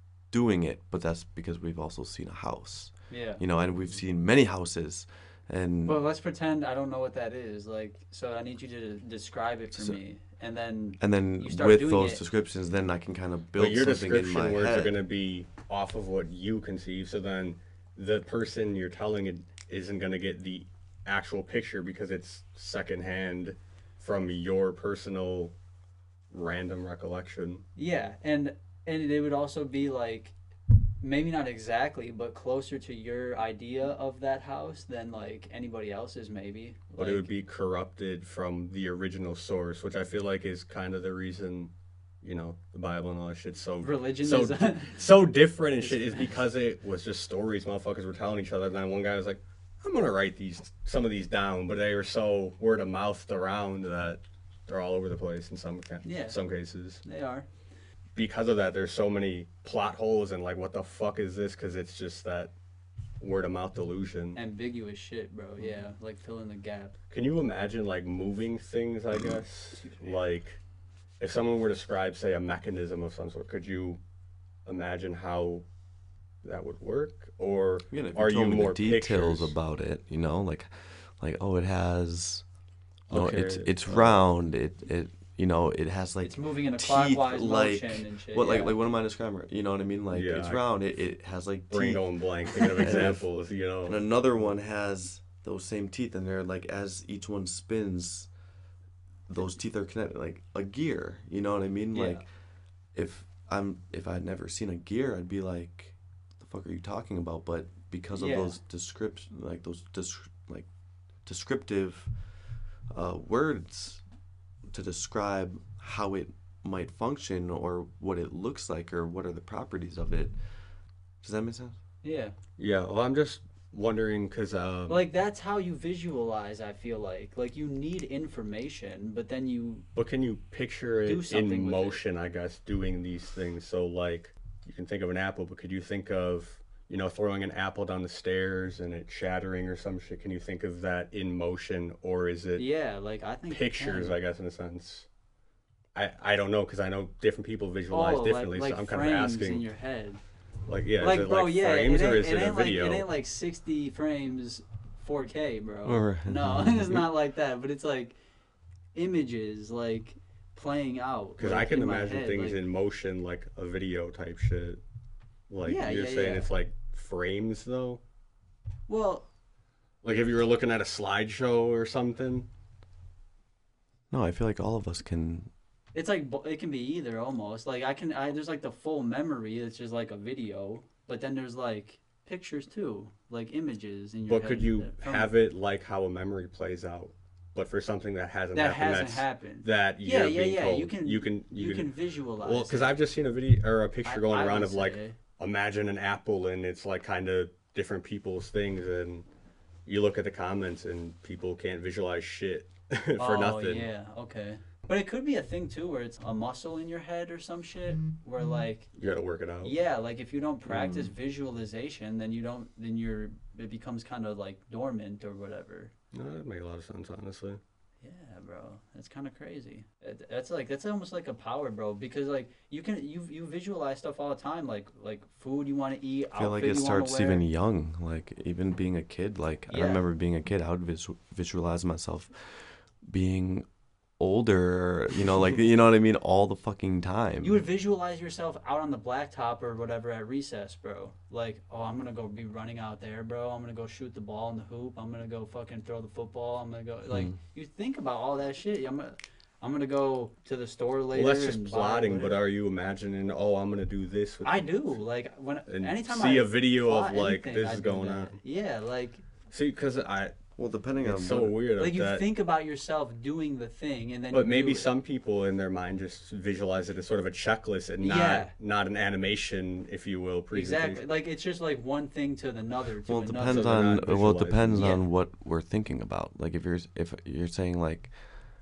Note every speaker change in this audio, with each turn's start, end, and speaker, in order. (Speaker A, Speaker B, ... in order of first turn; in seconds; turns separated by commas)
Speaker A: 0.3-6.0, Speaker B: 3.1-3.4, Speaker B: 5.9-12.2, Speaker A: 9.7-10.0, Speaker A: 11.0-15.0, Speaker C: 13.6-25.6, Speaker C: 26.3-27.6, Speaker B: 27.8-30.3, Speaker B: 31.0-37.3, Speaker C: 37.0-57.0, Speaker B: 43.8-45.1, Speaker B: 45.8-46.4, Speaker B: 56.0-56.4, Speaker B: 57.0-57.5, Speaker C: 58.2-62.5, Speaker C: 63.2-64.4, Speaker B: 64.3-67.0, Speaker C: 67.1-70.6, Speaker B: 69.7-70.3, Speaker C: 71.2-74.0, Speaker C: 74.7-75.6, Speaker C: 76.4-79.6, Speaker A: 77.9-82.4, Speaker C: 83.1-84.2, Speaker A: 83.1-93.3, Speaker B: 86.2-88.8, Speaker C: 90.1-90.6, Speaker C: 91.7-94.0, Speaker A: 93.8-98.3, Speaker A: 99.3-102.2, Speaker B: 101.9-102.2, Speaker A: 103.0-110.7, Speaker B: 108.1-108.6, Speaker A: 111.3-112.1, Speaker A: 112.9-114.0, Speaker A: 114.7-120.4, Speaker A: 121.2-121.8, Speaker B: 122.0-122.3, Speaker C: 122.6-125.0, Speaker B: 124.9-129.9, Speaker C: 129.9-142.7, Speaker B: 131.0-132.0, Speaker B: 142.6-144.2, Speaker C: 143.5-145.1, Speaker C: 145.9-149.7, Speaker B: 147.9-150.2, Speaker C: 150.7-153.1, Speaker B: 151.0-158.2, Speaker A: 155.8-157.1, Speaker B: 158.9-162.6, Speaker C: 161.4-164.8, Speaker C: 165.5-168.0, Speaker B: 165.6-166.5, Speaker B: 168.9-169.3, Speaker C: 170.0-172.5, Speaker A: 174.1-175.5, Speaker B: 175.9-185.3, Speaker C: 184.3-199.3, Speaker B: 188.5-193.0, Speaker B: 194.1-195.2, Speaker C: 199.9-203.9, Speaker B: 203.2-208.9, Speaker C: 209.0-209.8, Speaker B: 209.6-215.9, Speaker C: 210.7-211.1, Speaker C: 216.1-217.6, Speaker B: 218.0-227.4, Speaker A: 226.3-233.7, Speaker B: 229.7-230.1, Speaker A: 234.2-237.6, Speaker B: 237.4-252.4, Speaker C: 251.1-254.7, Speaker B: 254.4-259.2, Speaker C: 255.7-258.4, Speaker C: 259.5-260.4, Speaker A: 260.6-261.6, Speaker C: 260.9-262.3, Speaker B: 261.8-264.9, Speaker C: 264.3-271.0, Speaker B: 268.0-268.5, Speaker B: 270.5-273.8, Speaker A: 273.1-278.1, Speaker C: 273.4-274.9, Speaker B: 274.7-275.1